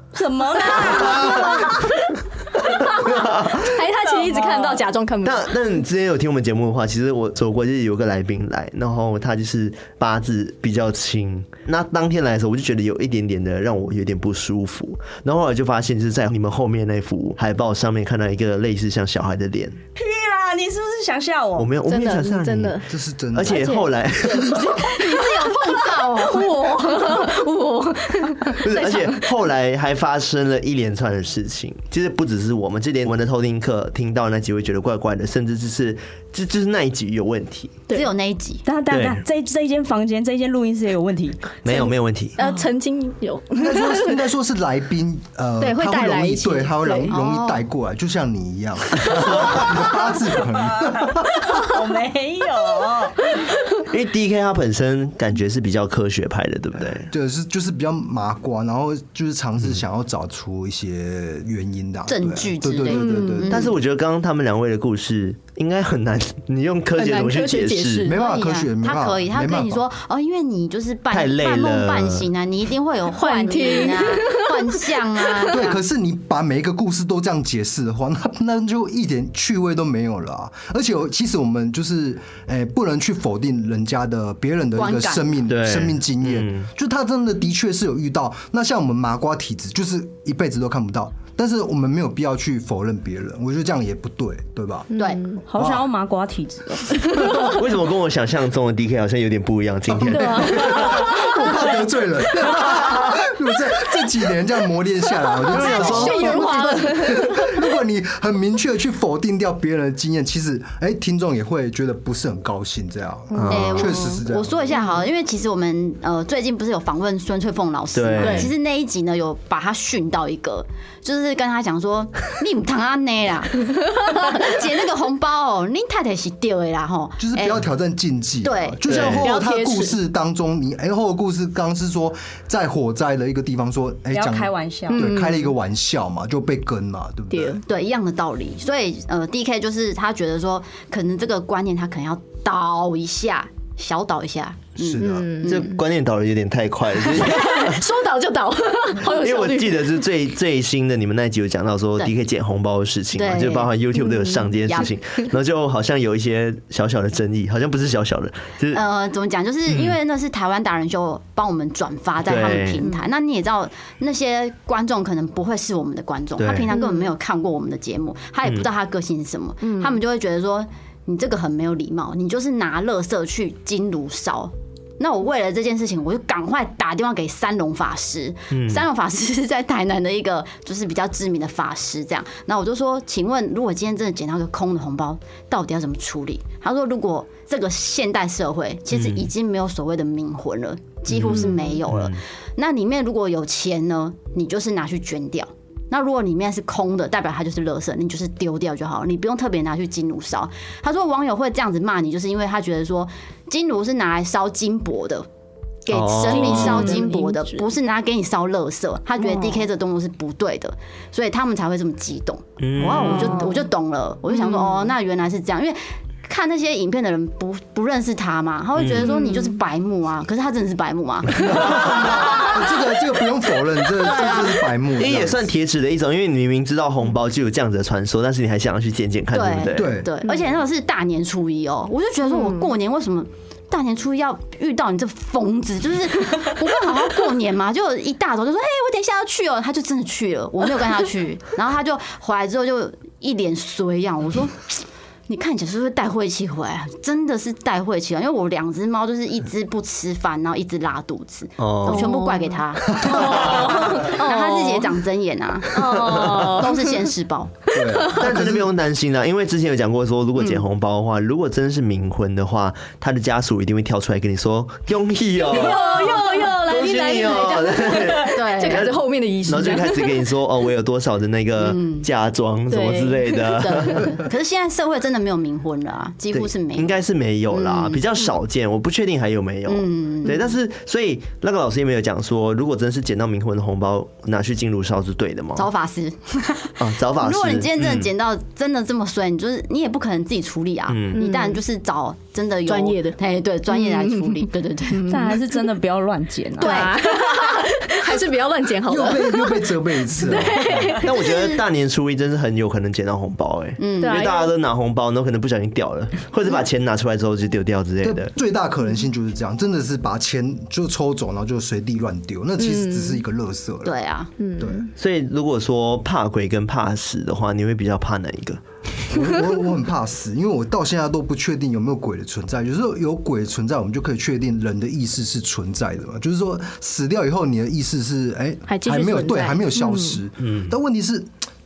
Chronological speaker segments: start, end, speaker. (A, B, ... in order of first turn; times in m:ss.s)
0:00.1-0:01.5 A
0:00.7-0:05.5 B
0:01.2-0:01.7 C
0:02.8-0:03.8 C
0:05.2-0:19.8 C
0:19.9-0:21.7 A
0:21.6-0:24.8 C
0:21.8-0:22.9 B
0:22.9-0:23.7 D
0:23.4-0:29.3 B
0:24.4-0:26.6 E
0:28.6-0:37.8 C
0:37.9-0:38.6 E
0:38.6-0:41.5 A
0:38.9-0:39.2 C
0:41.6-0:42.4 C
0:41.7-0:44.2 B
0:43.5-0:51.6 D
0:45.6-0:47.2 B
0:47.1-0:47.6 E
0:51.5-0:53.3 A
0:53.8-0:57.1 C
0:57.1-1:03.7 D
1:02.1-1:03.7 E
1:02.9-1:03.4 B
1:03.5-1:08.1 C
1:07.0-1:08.2 B
1:08.0-1:09.8 D
1:08.1-1:15.8 E
1:11.1-1:12.3 C
1:13.1-1:15.5 B
1:15.5-1:34.9 D
1:24.8-1:25.3 E
1:25.5-1:26.7 C
1:34.9-1:35.4 B
1:35.0-1:35.2 E
1:35.4-1:37.4 A
1:35.6-1:35.8 D
1:37.2-1:37.6 D
1:37.4-1:41.1 C
1:39.9-1:54.8 D
1:40.0-1:41.3 B
1:45.5-1:47.6 B
1:45.5-1:46.4 C
1:45.6-1:46.9 E
1:53.3-1:54.0 C
1:53.4-2:07.7 E
1:57.9-1:58.5 C
1:58.2-1:58.5 B
2:07.2-2:17.6 D
2:08.4-2:09.1 E
2:08.8-2:09.3 C
2:09.2-2:09.9 B
2:14.1-2:15.2 A
2:14.9-2:15.5 B
2:17.3-2:17.6 B
2:17.6-2:25.8 E
2:24.8-2:25.3 D
2:25.1-2:25.6 B
2:25.4-2:27.8 C
2:27.1-2:30.0 B
2:29.0-2:38.8 C
2:33.1-2:33.7 E
2:34.0-2:34.5 B
2:38.7-3:25.3 E
2:39.7-2:40.0 C
2:42.2-2:42.8 C
2:46.4-2:46.7 C
2:46.7-2:47.1 B
2:49.6-2:50.0 B
2:58.5-2:58.8 C
3:08.9-3:09.3 C
3:11.1-3:12.2 C
3:25.8-3:42.8 E
3:25.9-3:27.0 C
3:26.2-3:27.7 B
3:29.2-3:29.6 B
3:32.6-3:33.4 C
3:32.9-3:33.6 B
3:34.3-3:34.7 B
3:38.8-3:39.1 C
3:39.0-3:39.5 B
3:41.4-3:45.4 D
3:43.9-3:44.7 E
3:45.0-3:49.9 C
3:49.3-4:17.8 E
3:49.7-3:50.1 D
4:11.6-4:12.1 C
4:11.9-4:14.9 B
4:13.0-4:14.0 C
4:15.7-4:17.0 B
4:16.0-4:16.6 C
4:17.7-4:18.7 D
4:18.1-4:34.1 C
4:20.4-4:20.6 E
4:25.4-4:30.3 B
4:28.3-4:28.9 E
4:31.6-4:32.1 E
4:32.7-4:34.1 B
4:33.5-4:37.0 E
4:36.3-4:45.7 C
4:37.5-4:38.0 E
4:39.7-4:40.5 E
4:45.6-4:55.2 E
4:46.8-4:48.1 C
4:50.9-4:51.2 C
4:51.1-4:51.6 B
4:52.6-4:53.2 B
4:53.7-4:55.6 B
4:55.0-4:56.9 A
4:56.6-5:01.2 B
4:56.6-4:57.1 E
4:58.8-5:01.0 D
5:01.0-5:08.3 C
5:01.1-5:01.6 E
5:03.8-5:04.3 E
5:04.0-5:04.5 B
5:08.0-5:13.9 D
5:12.6-5:13.2 B
5:13.8-5:14.3 E
5:14.4-5:14.9 B
5:14.6-5:14.9 D
5:15.0-5:18.6 C
5:19.1-5:31.3 D
5:28.7-5:30.2 B
5:30.4-5:30.7 C